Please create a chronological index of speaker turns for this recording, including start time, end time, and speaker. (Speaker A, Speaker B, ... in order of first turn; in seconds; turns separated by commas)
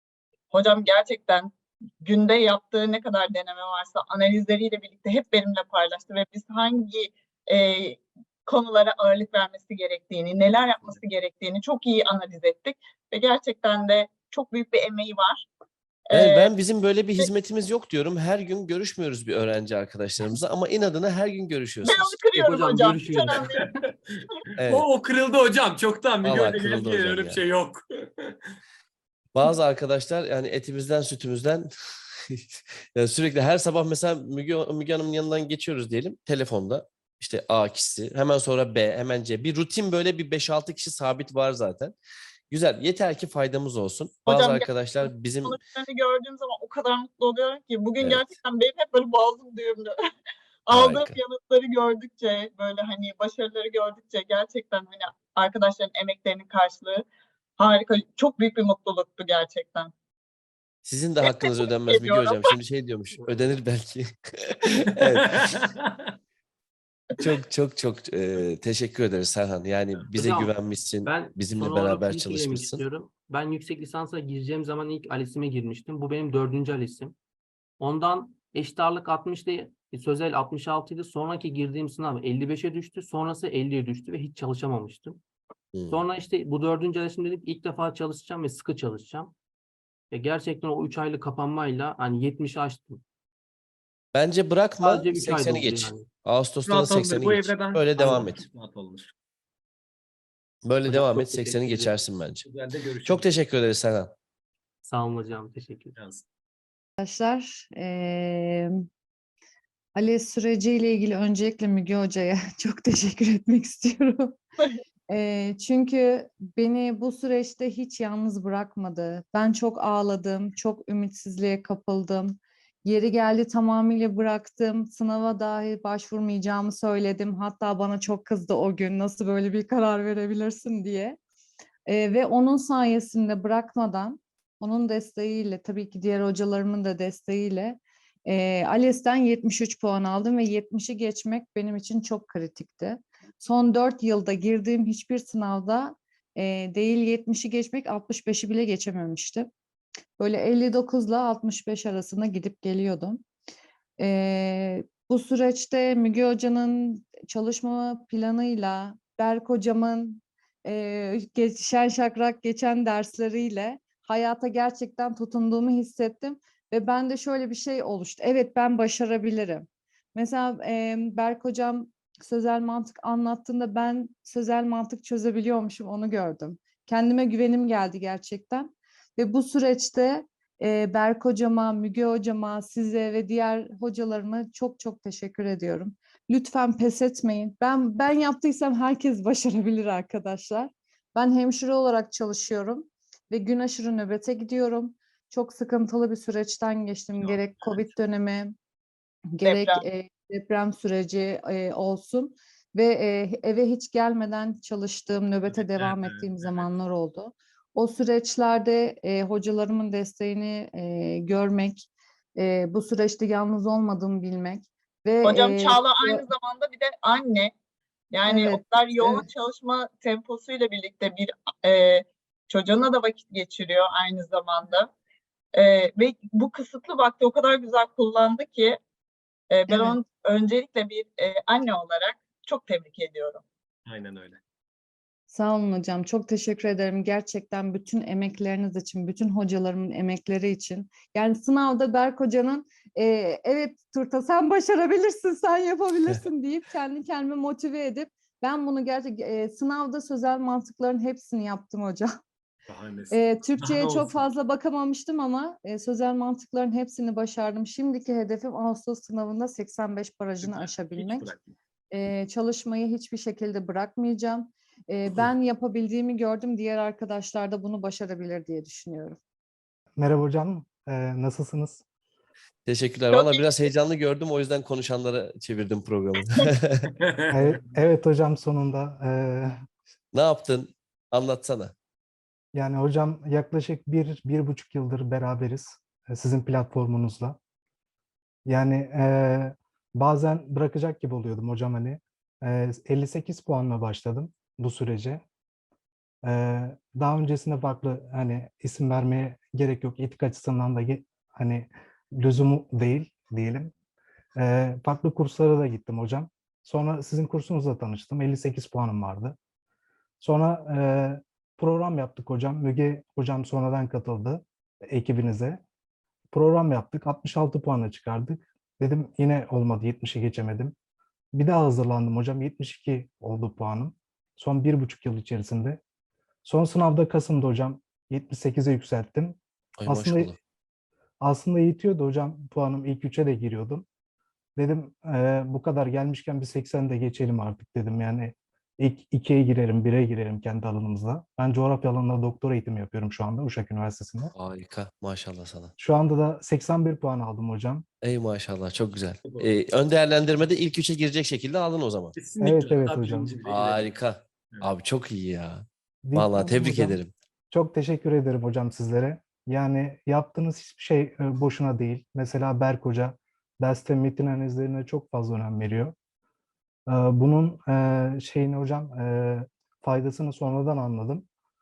Speaker A: 0.5-15.4, Speaker A: 16.1-16.5, Speaker B: 16.1-22.2, Speaker A: 21.8-23.6, Speaker C: 22.4-23.6, Speaker D: 23.6-28.4, Speaker B: 24.6-24.9, Speaker B: 26.2-27.4, Speaker B: 29.3-31.7, Speaker B: 32.3-42.0, Speaker B: 42.5-45.6, Speaker A: 44.2-49.9, Speaker B: 48.0-48.4, Speaker A: 50.6-57.0, Speaker B: 50.7-51.2, Speaker A: 57.6-59.9, Speaker B: 60.8-65.2, Speaker A: 61.2-62.6, Speaker D: 64.8-65.9, Speaker B: 67.2-72.8, Speaker C: 70.2-70.5, Speaker C: 71.0-77.1, Speaker C: 77.8-85.2, Speaker B: 85.7-86.0, Speaker C: 85.9-89.3, Speaker C: 90.1-93.0, Speaker B: 94.1-98.4, Speaker C: 94.8-96.1, Speaker D: 96.7-99.1, Speaker B: 100.6-102.4, Speaker C: 100.9-101.7, Speaker D: 101.1-103.3, Speaker B: 103.0-104.1, Speaker C: 104.8-105.9, Speaker D: 106.0-106.2, Speaker E: 107.0-108.7, Speaker E: 109.9-114.4, Speaker E: 115.1-131.2, Speaker E: 131.9-149.5, Speaker E: 150.2-153.2, Speaker E: 154.0-198.5, Speaker D: 197.2-198.0, Speaker E: 199.3-216.3, Speaker A: 199.4-199.8, Speaker D: 205.4-206.8, Speaker A: 215.2-217.5, Speaker A: 218.1-224.9, Speaker E: 218.2-219.3, Speaker A: 225.5-228.8, Speaker A: 229.5-233.4, Speaker E: 229.7-229.9, Speaker D: 233.8-234.4, Speaker E: 235.3-252.1, Speaker D: 252.7-254.3, Speaker E: 253.1-261.3, Speaker D: 260.4-261.5, Speaker E: 261.9-269.2, Speaker F: 270.0-271.8, Speaker B: 272.6-276.9, Speaker A: 273.1-273.6, Speaker D: 276.9-277.6, Speaker F: 277.3-279.5, Speaker B: 280.1-281.7, Speaker F: 282.5-287.4, Speaker F: 288.5-295.2, Speaker F: 296.2-303.7, Speaker F: 304.4-309.4, Speaker F: 310.2-315.6, Speaker F: 316.3-320.7, Speaker F: 321.3-325.8, Speaker F: 326.4-330.3, Speaker B: 329.8-330.4, Speaker F: 331.2-333.8, Speaker F: 334.6-344.3, Speaker B: 344.3-345.7, Speaker F: 345.8-347.8, Speaker B: 348.0-352.1, Speaker D: 349.2-349.5, Speaker D: 352.1-354.0, Speaker F: 352.4-353.3, Speaker B: 353.4-357.1, Speaker F: 356.0-357.0, Speaker F: 357.5-365.9, Speaker F: 366.9-371.2